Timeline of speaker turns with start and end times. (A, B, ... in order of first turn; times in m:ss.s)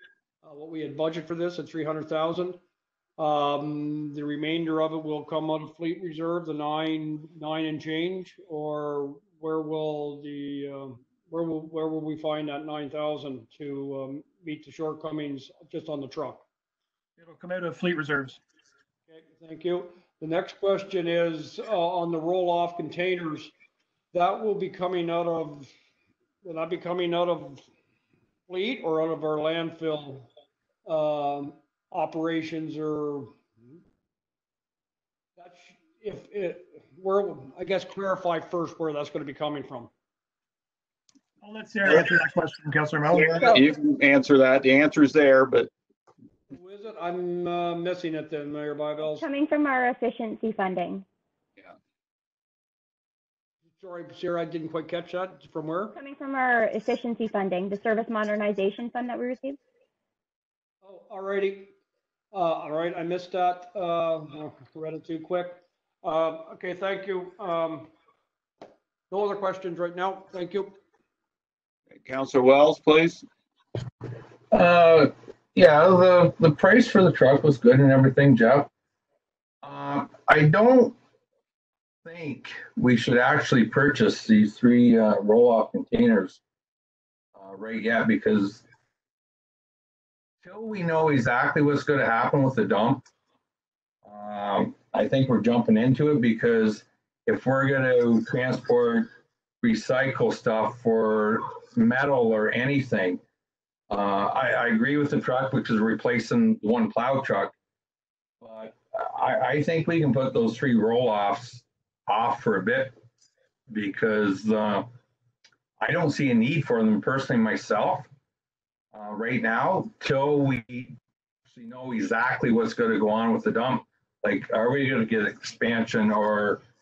0:00.4-0:02.6 A
0:03.2-0:16.4 A
0:17.2-0:18.4 B
0:19.1-0:23.5 A
0:24.1-0:25.7 A
0:26.4-0:27.6 A
0:28.5-0:30.3 A
0:30.9-0:33.3 A
0:35.4-0:39.9 A
0:41.4-0:43.6 B
0:41.8-0:42.1 C
0:43.1-0:45.7 C
0:46.5-0:49.2 A
0:49.1-0:51.0 D
0:53.8-0:56.0 A
0:55.9-0:59.6 D
1:00.8-1:01.7 A
1:02.3-1:07.9 A
1:09.1-1:10.8 A
1:11.9-1:13.2 C
1:14.5-1:18.7 E
1:19.6-1:21.0 E
1:22.0-1:26.4 E
1:27.4-1:28.6 E
1:30.4-1:33.0 E
1:34.0-1:39.1 E
1:39.6-1:43.2 E
1:43.9-1:47.5 E
1:48.4-1:53.0 E
1:53.7-1:54.9 E
1:55.8-1:58.1 E
1:58.9-2:01.0 E
2:01.5-2:06.6 E